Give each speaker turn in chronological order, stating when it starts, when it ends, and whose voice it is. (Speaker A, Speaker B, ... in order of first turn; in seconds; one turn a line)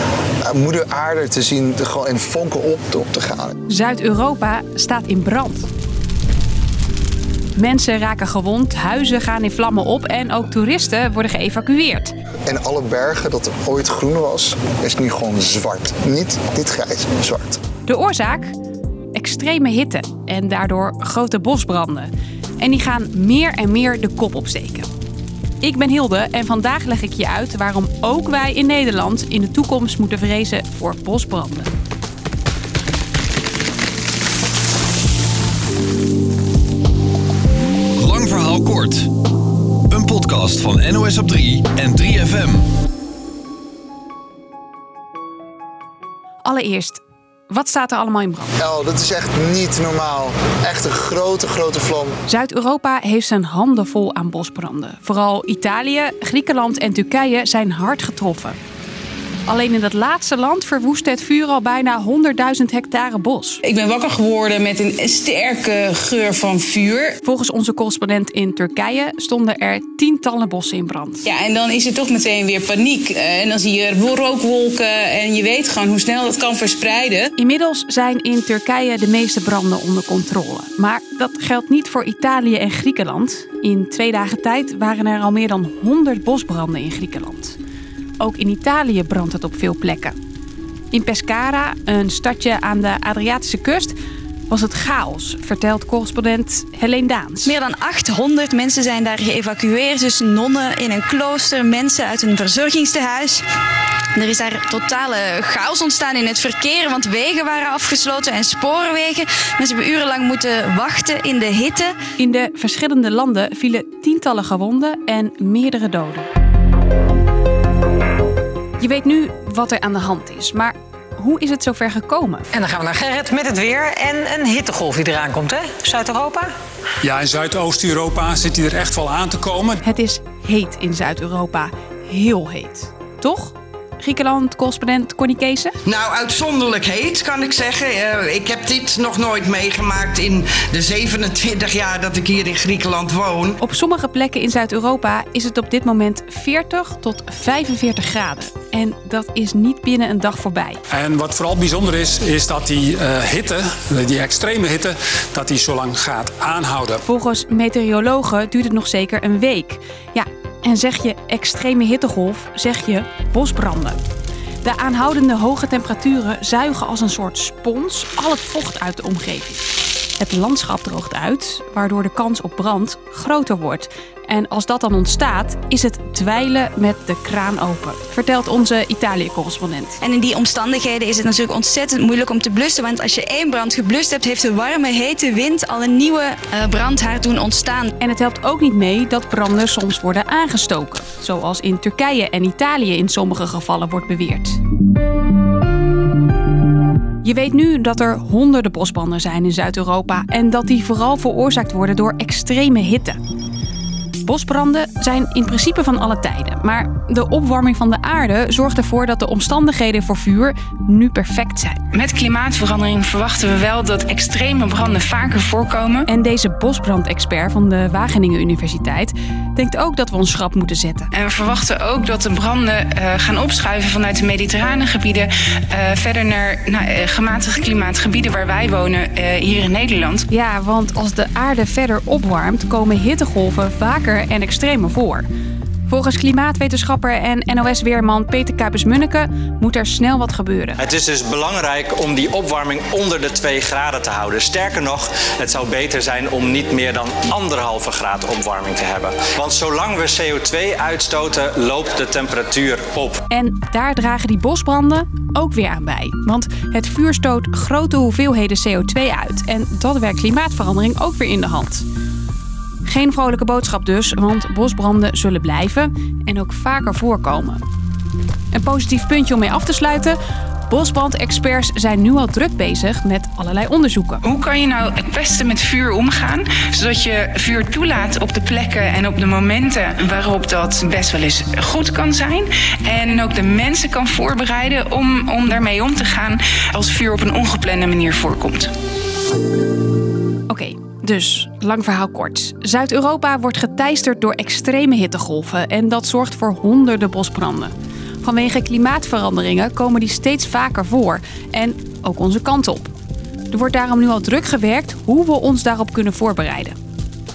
Speaker A: 0.5-3.5
Speaker B: 3.7-5.7
Speaker B: 7.5-12.1
Speaker A: 12.5-17.6
Speaker B: 17.9-18.5
Speaker B: 19.1-24.9
Speaker B: 25.6-31.7
Speaker C: 38.0-39.1
Speaker C: 39.9-42.6
Speaker B: 46.4-48.5
Speaker A: 48.6-52.1
Speaker B: 52.3-58.6
Speaker B: 59.5-63.6
Speaker D: 63.6-63.9
Speaker E: 64.7-67.0
Speaker B: 67.2-71.2
Speaker D: 71.2-71.7
Speaker E: 71.9-77.1
Speaker D: 72.3-72.6
Speaker B: 77.4-87.6
Speaker B: 88.2-90.2
Speaker B: 90.9-93.9
Speaker B: 94.5-97.5
Speaker D: 97.5-103.4
Speaker D: 104.1-112.0
Speaker B: 112.2-116.3
Speaker B: 118.8-122.4
Speaker F: 122.5-126.5
Speaker G: 127.0-129.8
Speaker B: 129.8-135.7
Speaker H: 135.9-143.6
Speaker B: 143.6-150.8
Speaker G: 150.9-157.0
Speaker B: 157.1-164.0
Speaker B: 164.6-169.6
Speaker B: 170.2-180.0
Speaker D: 180.0-187.9
Speaker B: 188.0-194.6
Speaker B: 197.2-203.2
Speaker B: 204.2-211.8
Speaker E: 211.9-216.0
Speaker B: 216.1-221.1
Speaker E: 221.1-230.2
Speaker B: 230.3-235.2
Speaker B: 235.9-240.8
Speaker I: 240.8-253.2
Speaker B: 253.3-261.8
Speaker B: 262.8-267.6
Speaker B: 268.5-274.2
Speaker E: 274.2-288.7
Speaker B: 290.5-302.9
Speaker B: 303.5-306.8